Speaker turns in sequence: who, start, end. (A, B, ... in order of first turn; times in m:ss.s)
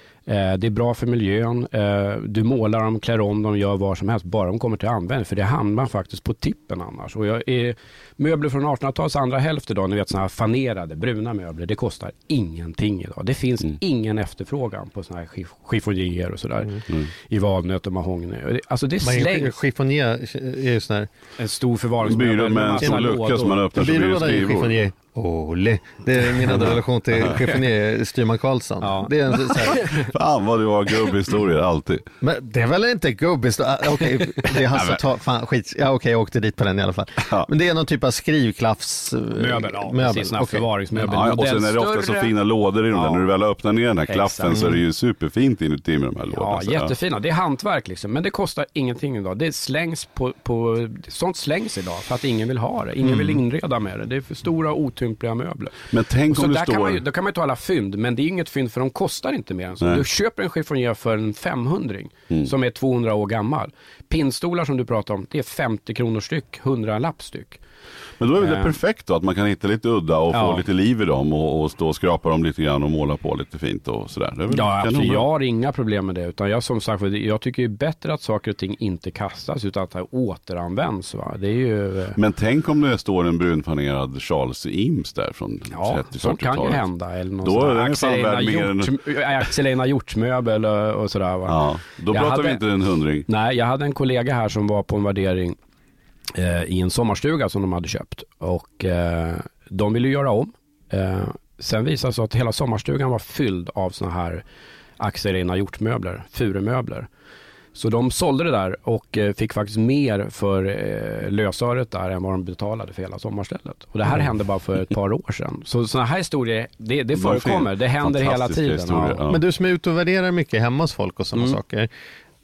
0:00.3-0:19.6 A
0:19.0-0:21.1 B
0:21.4-0:23.6 A
0:22.0-0:24.8 C
0:23.7-0:29.9 B
0:28.8-0:30.1 A
0:29.8-0:32.0 C
0:32.2-0:40.6 B
0:37.2-0:37.5 C
0:39.3-0:42.3 A
0:41.0-0:46.9 C
0:42.9-0:43.3 A
0:44.1-0:44.7 A
0:44.5-0:44.8 B
0:46.3-0:55.8 A
0:55.9-0:57.0 C
0:56.3-1:07.6 A
1:08.2-1:15.3 C
1:08.4-1:08.8 A
1:10.3-1:10.6 A
1:14.5-1:22.2 A
1:22.2-1:26.8 C
1:25.7-1:32.6 A
1:27.4-1:29.2 C
1:31.5-1:33.2 C
1:33.3-1:35.6 A
1:36.3-1:44.4 A
1:45.0-1:47.1 A
1:47.7-1:59.2 A
1:57.1-1:59.4 C
1:59.3-2:01.9 B